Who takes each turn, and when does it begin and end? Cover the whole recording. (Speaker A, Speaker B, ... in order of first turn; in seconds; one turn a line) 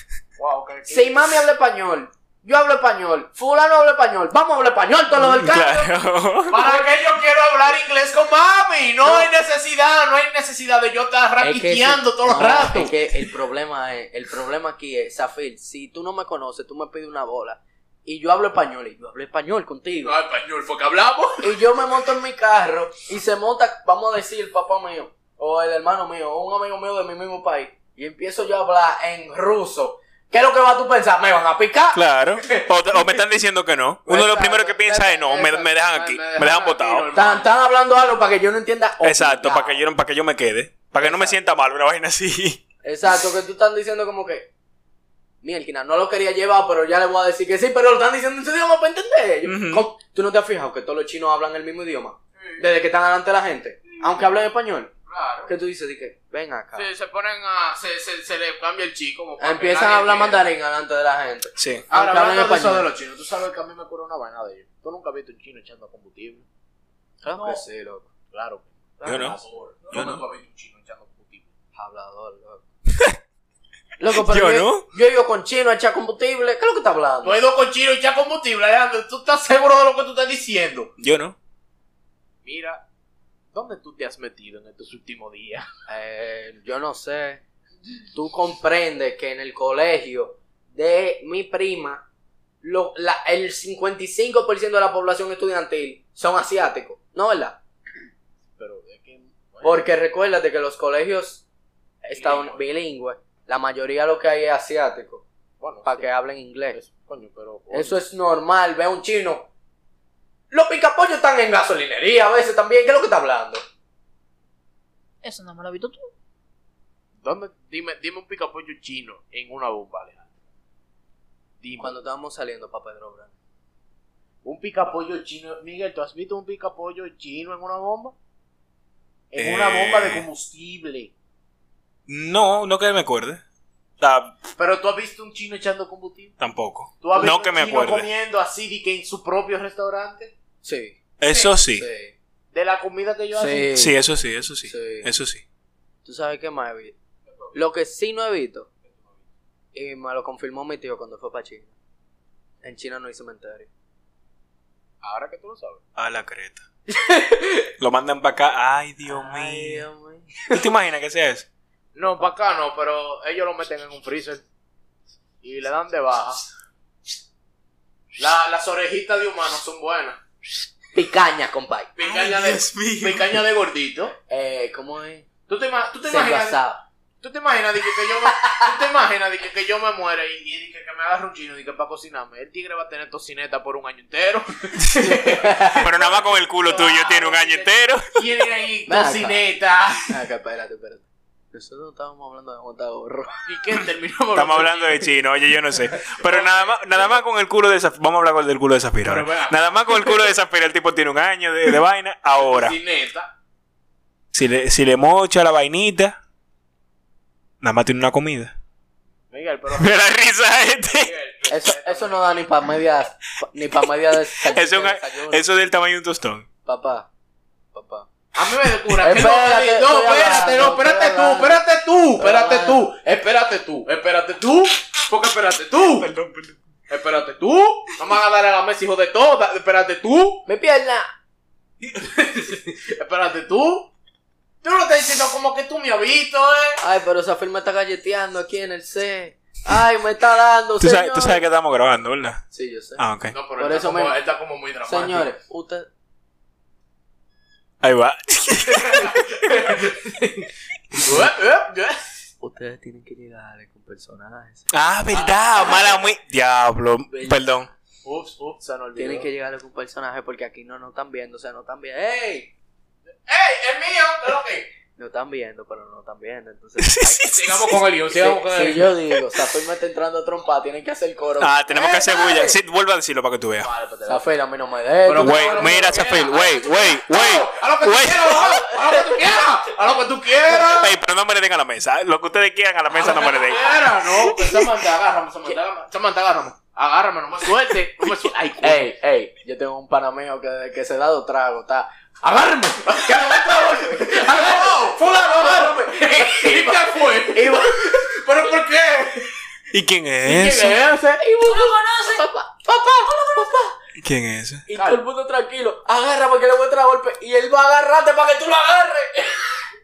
Speaker A: 0.4-1.2
Speaker B: 0.9-5.9
Speaker C: 5.2-6.6
Speaker A: 6.5-12.9
Speaker B: 6.6-6.8
Speaker B: 9.0-9.3
Speaker B: 11.4-20.1
Speaker A: 20.0-21.5
Speaker B: 21.4-32.7
Speaker C: 31.9-37.1
Speaker B: 34.0-35.7
Speaker A: 35.7-37.5
Speaker B: 37.1-39.8
Speaker C: 39.0-42.6
Speaker B: 41.0-41.4
Speaker B: 42.8-44.5
Speaker B: 45.4-54.9
Speaker C: 49.4-49.9
Speaker A: 52.4-52.6
Speaker A: 55.1-55.5
Speaker B: 55.5-56.9
Speaker A: 56.8-60.4
Speaker B: 59.4-62.9
Speaker C: 61.6-61.9
Speaker A: 61.9-66.4
Speaker B: 67.2-68.1
Speaker A: 67.3-67.6
Speaker A: 68.3-71.5
Speaker B: 69.0-69.4
Speaker C: 69.0-69.4
Speaker C: 69.9-70.2
Speaker B: 71.8-72.6
Speaker B: 74.0-77.4
Speaker C: 74.1-74.8
Speaker A: 77.2-80.9
Speaker C: 81.0-81.3
Speaker A: 82.4-82.8
Speaker A: 83.5-85.7
Speaker B: 85.9-87.4
Speaker B: 88.1-92.0
Speaker B: 92.6-97.6
Speaker A: 98.6-99.8
Speaker B: 99.6-101.4
Speaker B: 102.0-105.2
Speaker A: 102.1-102.6
Speaker A: 105.6-106.1
Speaker B: 105.8-106.8
Speaker A: 106.7-108.0
Speaker B: 107.7-109.5
Speaker B: 110.5-113.6
Speaker D: 115.2-116.1
Speaker A: 117.2-120.3
Speaker A: 121.6-121.9
Speaker B: 121.8-123.3
Speaker A: 124.4-128.1
Speaker A: 129.3-131.1
Speaker C: 129.3-130.3
Speaker C: 132.1-133.4
Speaker C: 134.0-134.4
Speaker A: 134.6-136.3
Speaker C: 136.4-138.1
Speaker A: 137.0-140.3
Speaker B: 140.6-141.0
Speaker C: 141.2-141.8
Speaker B: 141.6-142.1
Speaker A: 142.5-143.8
Speaker B: 143.3-143.9
Speaker C: 143.7-145.4
Speaker B: 144.6-145.1
Speaker B: 146.0-146.9
Speaker B: 147.5-148.7
Speaker B: 149.7-151.7
Speaker B: 152.6-153.7
Speaker A: 155.0-155.8
Speaker C: 155.9-156.6
Speaker B: 156.9-157.7
Speaker C: 157.8-159.8
Speaker B: 159.0-160.6
Speaker C: 160.5-161.4
Speaker A: 161.9-164.4
Speaker A: 165.4-166.4
Speaker A: 168.2-170.2
Speaker B: 170.9-171.9
Speaker A: 171.9-174.2
Speaker C: 172.0-173.4
Speaker B: 174.3-175.3
Speaker A: 175.5-176.6
Speaker B: 176.1-176.8
Speaker A: 177.2-190.2
Speaker B: 178.4-178.7
Speaker B: 184.9-185.8
Speaker C: 185.8-188.2
Speaker B: 188.9-189.4
Speaker B: 190.1-193.4
Speaker A: 193.4-195.1
Speaker C: 194.3-202.8
Speaker A: 196.0-197.2
Speaker A: 199.0-200.2
Speaker A: 202.3-203.3
Speaker C: 204.3-206.2
Speaker C: 207.6-208.5
Speaker A: 209.3-210.2
Speaker C: 209.7-211.1
Speaker A: 210.9-212.2
Speaker B: 211.5-215.4
Speaker C: 214.4-216.5
Speaker B: 216.7-217.1
Speaker B: 217.7-218.1
Speaker A: 218.3-226.1
Speaker B: 219.0-221.6
Speaker B: 222.2-222.8
Speaker C: 226.0-226.6
Speaker A: 226.9-230.4
Speaker B: 230.4-231.1
Speaker A: 231.8-233.9
Speaker A: 234.6-236.8
Speaker B: 236.8-241.4
Speaker C: 240.8-242.4
Speaker B: 242.5-243.0
Speaker C: 243.0-243.4
Speaker A: 243.3-245.3
Speaker B: 243.6-244.2
Speaker B: 244.8-245.9
Speaker C: 247.8-249.3
Speaker A: 248.8-250.3
Speaker A: 251.0-252.1
Speaker B: 252.4-254.7
Speaker C: 254.7-257.7
Speaker B: 257.1-257.4
Speaker A: 258.0-259.3
Speaker B: 258.9-262.5
Speaker A: 263.3-264.7
Speaker B: 265.0-267.1
Speaker C: 266.8-267.8
Speaker A: 267.1-268.9
Speaker B: 268.1-272.5
Speaker C: 271.4-273.7
Speaker A: 273.6-274.2
Speaker B: 274.1-276.2
Speaker A: 275.1-280.9
Speaker C: 275.2-278.6
Speaker C: 280.6-284.6
Speaker A: 282.9-289.2
Speaker B: 288.6-298.3
Speaker A: 292.8-299.3
Speaker C: 299.7-300.8
Speaker A: 300.2-301.2
Speaker B: 301.1-303.7
Speaker D: 301.4-302.2
Speaker D: 303.1-303.5
Speaker C: 304.0-304.7
Speaker B: 304.7-309.5
Speaker A: 304.7-305.0